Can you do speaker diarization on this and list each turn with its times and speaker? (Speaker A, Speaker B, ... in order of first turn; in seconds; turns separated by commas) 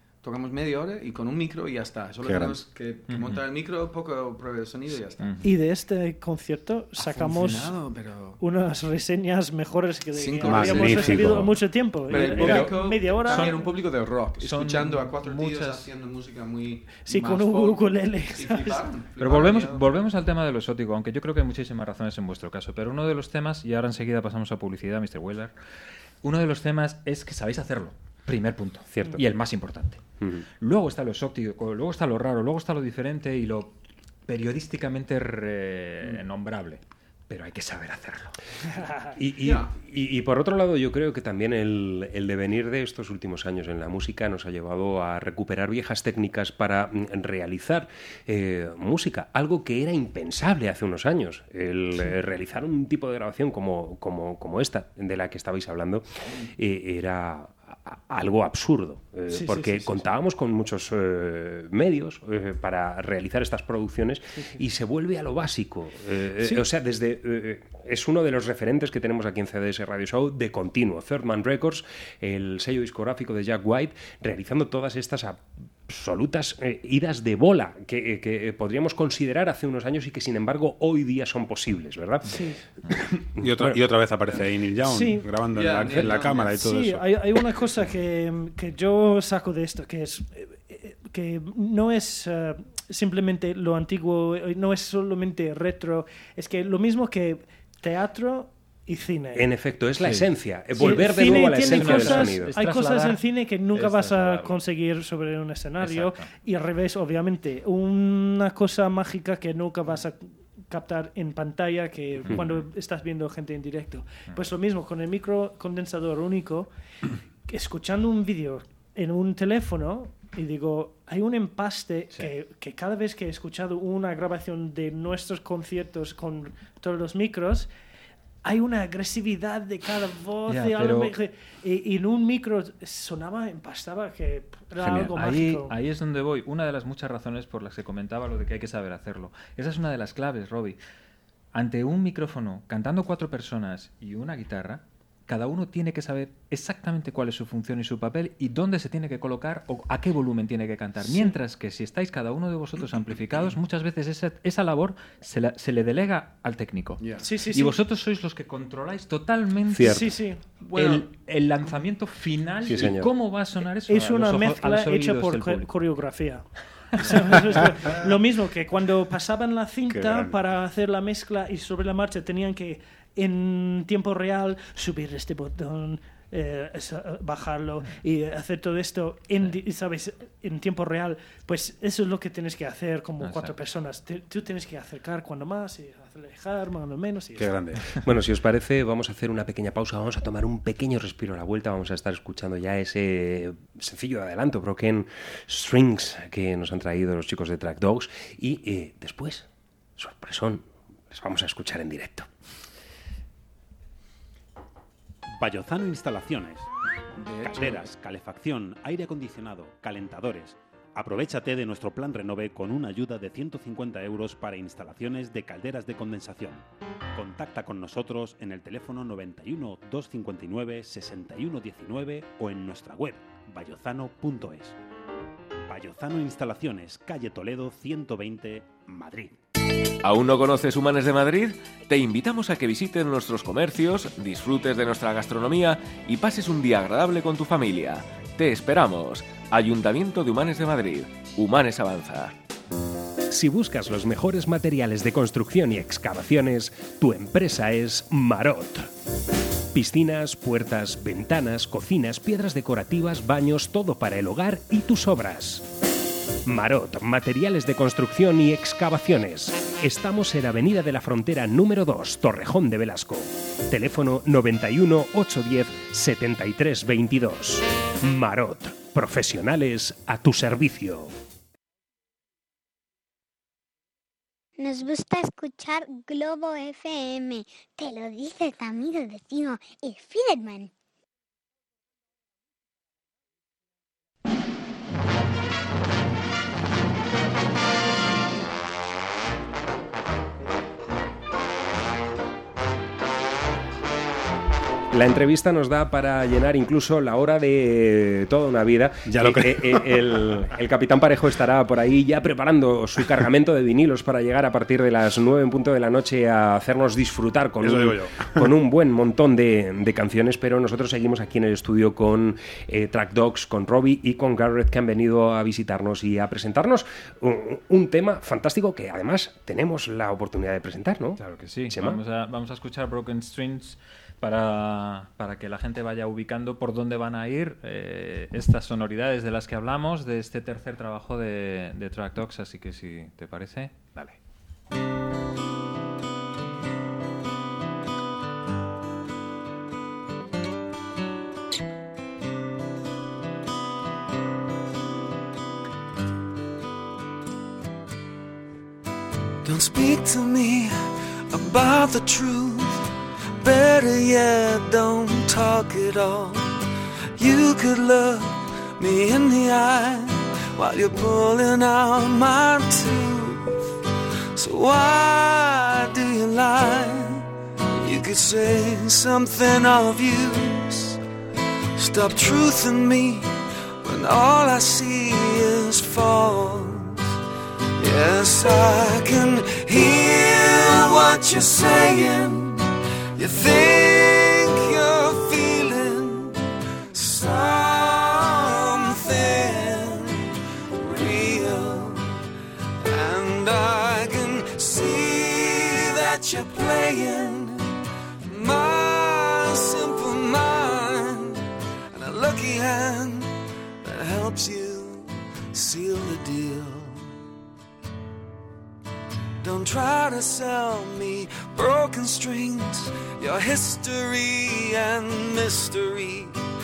Speaker A: 0.2-5.3, Speaker B: 2.2-2.6, Speaker C: 3.1-3.4, Speaker C: 5.2-5.5, Speaker D: 5.4-7.7, Speaker A: 7.0-8.4, Speaker D: 8.4-13.7, Speaker A: 10.1-11.4, Speaker B: 10.4-11.6, Speaker A: 12.1-19.9, Speaker C: 12.1-15.9, Speaker D: 17.0-18.9, Speaker C: 19.1-25.5, Speaker C: 26.2-30.0, Speaker E: 28.9-29.2, Speaker C: 30.6-33.7, Speaker C: 34.3-38.4, Speaker D: 38.8-39.1, Speaker E: 39.2-82.3, Speaker A: 39.4-39.7, Speaker D: 59.3-60.0, Speaker D: 82.2-82.6, Speaker E: 83.3-83.8, Speaker B: 83.3-87.1, Speaker D: 84.8-85.3, Speaker A: 85.5-86.5, Speaker D: 86.5-99.5, Speaker E: 99.3-102.5, Speaker C: 100.0-104.6, Speaker D: 100.7-116.7, Speaker C: 105.8-106.3, Speaker C: 112.2-112.6, Speaker D: 117.5-127.7, Speaker D: 128.4-135.7, Speaker C: 130.5-131.2, Speaker C: 134.8-140.8, Speaker C: 141.5-160.1, Speaker D: 151.0-151.3, Speaker A: 157.0-157.2, Speaker D: 157.2-157.8, Speaker E: 159.7-160.1, Speaker D: 159.8-160.4, Speaker A: 160.6-161.1, Speaker C: 160.7-165.7, Speaker E: 162.6-163.1, Speaker D: 163.9-166.5, Speaker C: 167.0-167.7, Speaker D: 167.0-187.6, Speaker B: 169.9-170.3, Speaker C: 183.2-183.6, Speaker B: 187.4-187.8, Speaker E: 187.9-199.5, Speaker E: 200.0-202.3, Speaker B: 205.3-206.7, Speaker A: 207.2-207.8, Speaker B: 207.4-216.6, Speaker B: 217.1-224.8, Speaker B: 225.7-229.3, Speaker F: 230.0-242.3, Speaker E: 243.3-248.9, Speaker E: 249.7-255.6, Speaker E: 256.4-271.1, Speaker G: 274.6-280.7, Speaker E: 294.9-322.0, Speaker B: 299.1-300.2, Speaker B: 307.6-308.5, Speaker C: 321.2-334.2, Speaker H: 349.4-356.6, Speaker H: 357.2-363.7, Speaker H: 364.3-371.0, Speaker H: 371.8-377.0, Speaker H: 377.8-386.4, Speaker H: 386.9-392.2, Speaker H: 392.8-401.4, Speaker H: 401.9-403.3, Speaker H: 403.8-407.0, Speaker H: 409.4-416.4